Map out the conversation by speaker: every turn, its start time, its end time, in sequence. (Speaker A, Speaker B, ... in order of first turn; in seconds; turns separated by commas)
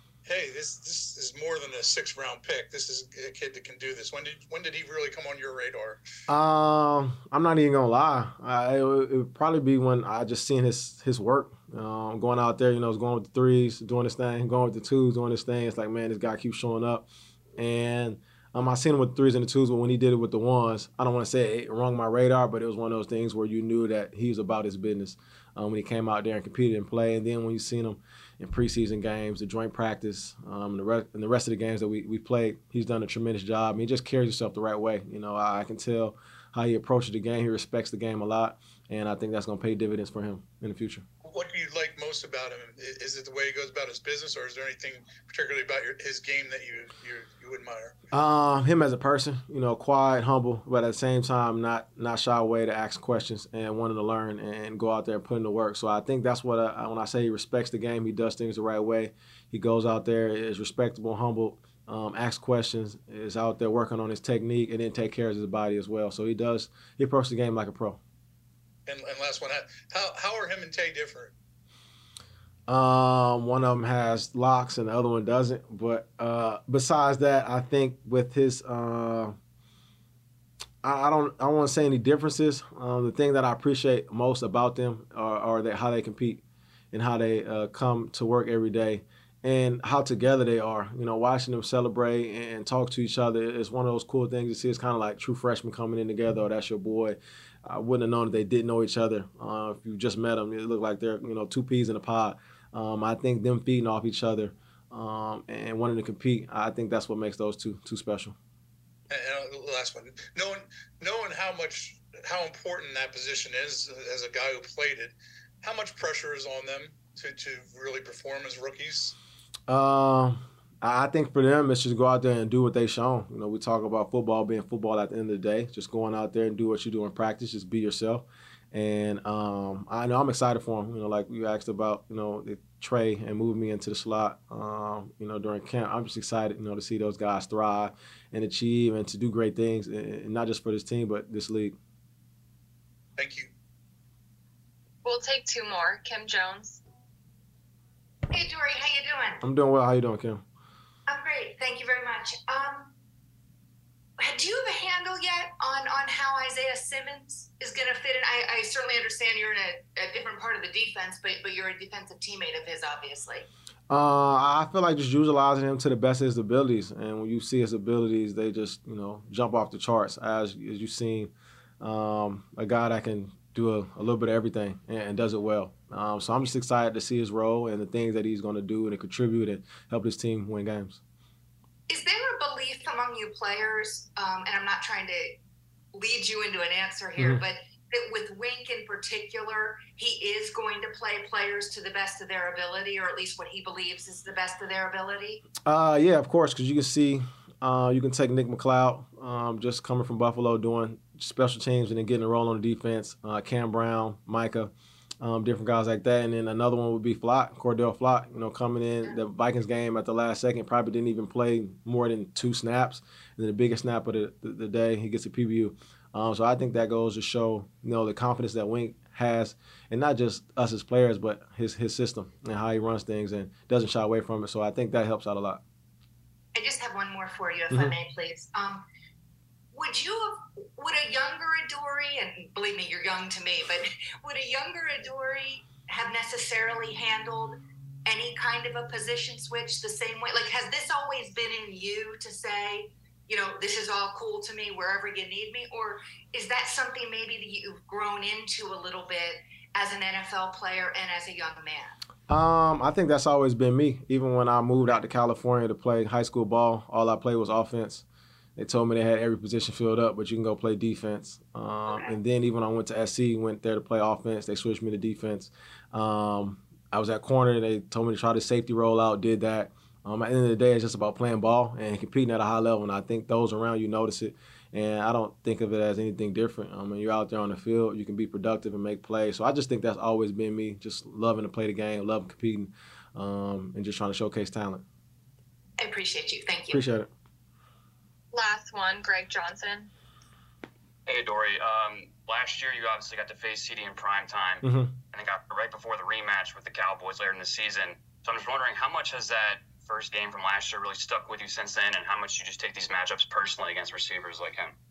Speaker A: 0.2-6.0, Speaker B: 6.3-41.0, Speaker A: 41.2-47.9, Speaker B: 48.1-68.0, Speaker A: 68.9-71.3, Speaker B: 72.7-79.3, Speaker B: 80.8-86.4, Speaker B: 86.9-108.3, Speaker A: 109.1-119.1, Speaker B: 119.7-141.8, Speaker A: 143.2-143.5, Speaker C: 145.0-146.8, Speaker D: 148.3-149.4, Speaker B: 149.4-150.4, Speaker D: 151.1-152.9, Speaker D: 154.2-163.5, Speaker B: 163.9-181.0, Speaker D: 181.9-185.4, Speaker D: 185.9-195.4, Speaker B: 187.2-187.4, Speaker B: 195.7-225.6, Speaker D: 226.5-228.8, Speaker B: 227.7-228.0, Speaker D: 229.7-251.9, Speaker B: 252.3-258.0, Speaker B: 258.6-284.8, Speaker D: 261.9-262.1, Speaker D: 285.8-286.8, Speaker B: 286.7-287.1, Speaker C: 288.3-289.9, Speaker E: 291.1-304.7, Speaker B: 294.6-294.9